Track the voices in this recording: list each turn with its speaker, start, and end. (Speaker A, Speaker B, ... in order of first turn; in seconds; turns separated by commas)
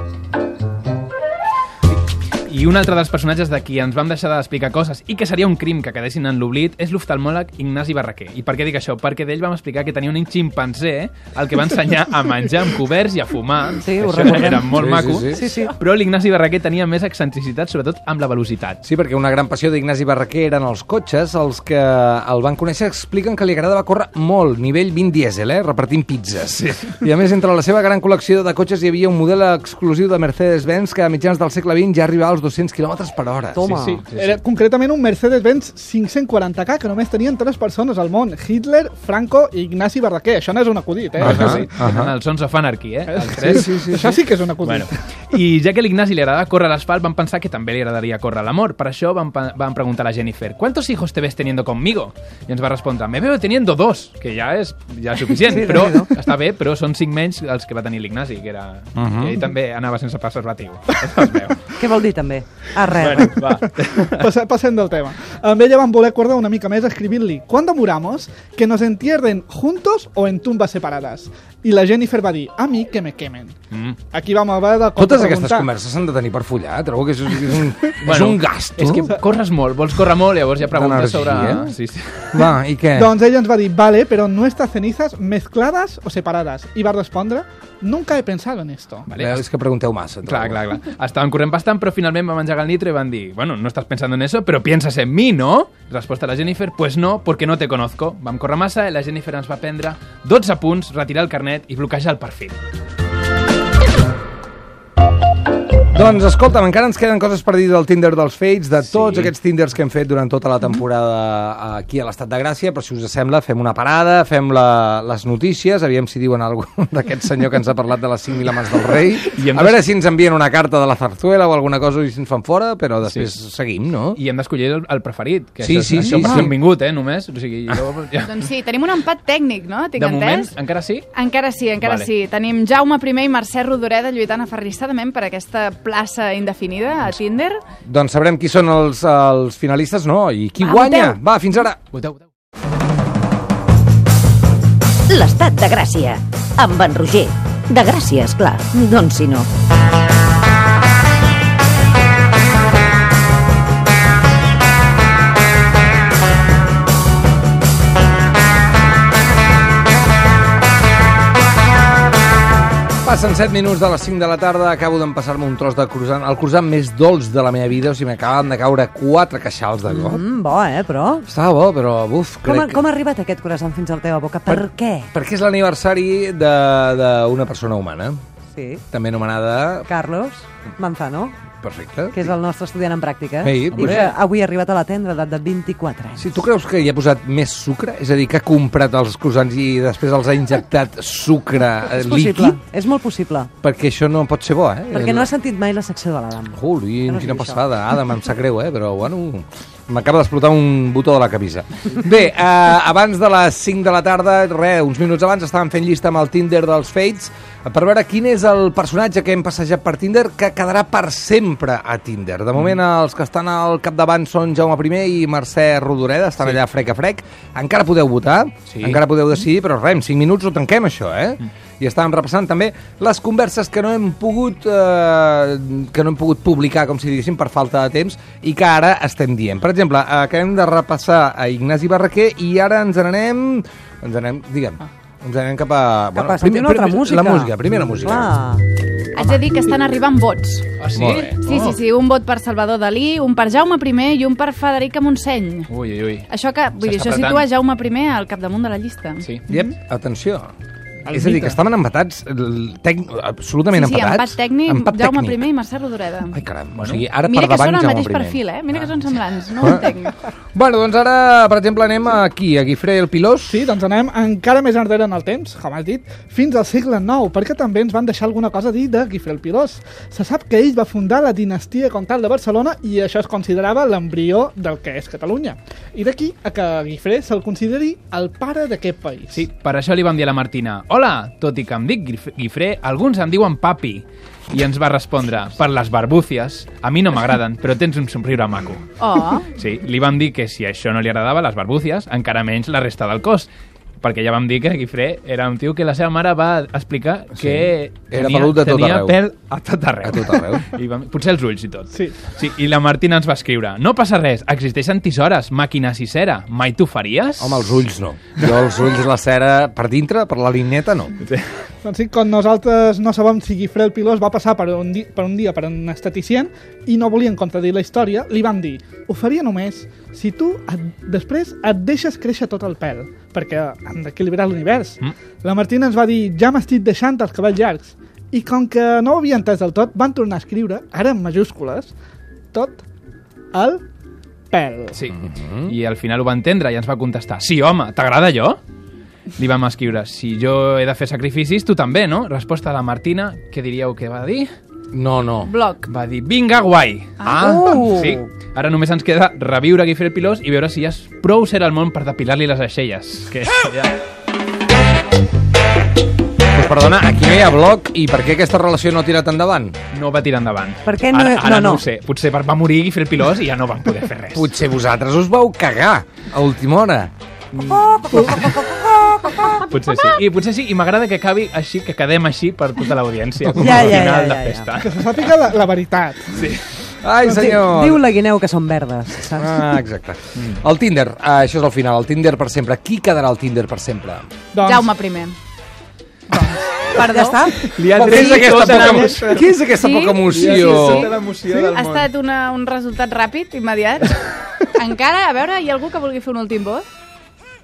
Speaker A: 2.5-18.8, Speaker B: 13.8-15.7, Speaker C: 14.8-15.4, Speaker C: 18.8-33.6, Speaker B: 33.5-34.0, Speaker A: 33.6-34.4, Speaker D: 33.8-41.6, Speaker C: 41.2-42.1, Speaker A: 41.2-43.8, Speaker D: 43.1-44.9, Speaker C: 43.5-44.1, Speaker A: 44.6-61.7, Speaker B: 55.5-56.1, Speaker C: 58.9-59.3, Speaker B: 61.8-63.4, Speaker A: 63.0-64.2, Speaker D: 64.0-73.5, Speaker A: 73.7-74.0, Speaker D: 74.1-75.7, Speaker C: 75.0-79.0, Speaker A: 78.0-82.5, Speaker C: 80.6-81.7, Speaker D: 82.4-89.1, Speaker C: 82.4-83.1, Speaker A: 89.1-89.4, Speaker C: 89.2-90.7, Speaker A: 90.2-102.6, Speaker C: 105.9-124.2, Speaker A: 108.9-109.3, Speaker A: 119.3-119.8, Speaker A: 124.1-128.3, Speaker C: 125.6-126.5, Speaker E: 128.2-130.5, Speaker A: 130.0-131.1, Speaker E: 131.1-137.6, Speaker A: 131.8-132.1, Speaker C: 137.8-141.8, Speaker E: 140.6-141.2, Speaker A: 141.9-142.2, Speaker F: 145.1-149.5, Speaker C: 163.0-170.2, Speaker B: 169.9-171.2, Speaker C: 171.2-172.8, Speaker B: 172.4-175.1, Speaker C: 174.4-178.2, Speaker B: 178.6-178.8, Speaker C: 178.9-179.9, Speaker B: 179.9-181.5, Speaker C: 181.5-182.3, Speaker B: 182.1-186.4, Speaker C: 183.4-184.0, Speaker C: 186.2-192.6, Speaker B: 191.8-193.5, Speaker C: 193.6-195.4, Speaker B: 194.9-197.6, Speaker C: 196.5-238.3, Speaker A: 218.7-219.0, Speaker B: 236.1-238.6, Speaker E: 239.1-240.6, Speaker A: 240.8-241.8, Speaker C: 240.9-241.3, Speaker E: 241.4-245.7, Speaker A: 245.7-246.3, Speaker E: 246.3-249.3, Speaker A: 246.8-247.5, Speaker A: 249.2-249.5, Speaker C: 249.5-250.5, Speaker A: 251.0-251.5, Speaker C: 251.1-255.5, Speaker E: 253.7-256.4, Speaker C: 256.3-258.4, Speaker A: 256.7-257.0, Speaker E: 257.2-260.1, Speaker C: 259.6-259.9, Speaker C: 260.5-263.6, Speaker D: 263.5-279.4, Speaker A: 279.3-288.8, Speaker E: 289.0-289.5, Speaker A: 289.6-293.5, Speaker A: 294.0-307.8, Speaker C: 297.4-299.2, Speaker C: 300.0-300.6, Speaker C: 307.4-311.1, Speaker D: 311.8-331.9, Speaker D: 332.5-332.8, Speaker D: 333.5-333.8, Speaker D: 334.5-335.0, Speaker A: 334.9-338.6, Speaker C: 335.1-335.7, Speaker A: 339.4-344.5, Speaker C: 344.9-345.5, Speaker E: 345.4-345.9, Speaker A: 345.9-353.9, Speaker B: 347.2-348.3, Speaker C: 356.5-359.8, Speaker A: 359.9-364.5, Speaker B: 360.8-361.8, Speaker C: 364.3-367.1, Speaker B: 367.6-369.6, Speaker A: 367.6-368.5, Speaker A: 369.5-375.3, Speaker B: 373.5-374.7, Speaker D: 374.8-376.5, Speaker A: 376.3-376.6, Speaker C: 377.0-378.0, Speaker B: 377.3-379.8, Speaker C: 379.3-384.4, Speaker A: 380.4-380.6, Speaker D: 384.5-384.9, Speaker E: 384.6-385.3, Speaker D: 386.3-386.8, Speaker E: 386.9-387.5, Speaker B: 387.0-387.6, Speaker A: 387.7-389.5, Speaker C: 387.9-391.1, Speaker D: 387.9-389.2, Speaker E: 388.1-388.6, Speaker E: 389.6-391.1, Speaker A: 390.3-392.1, Speaker D: 391.4-391.7, Speaker E: 391.7-396.8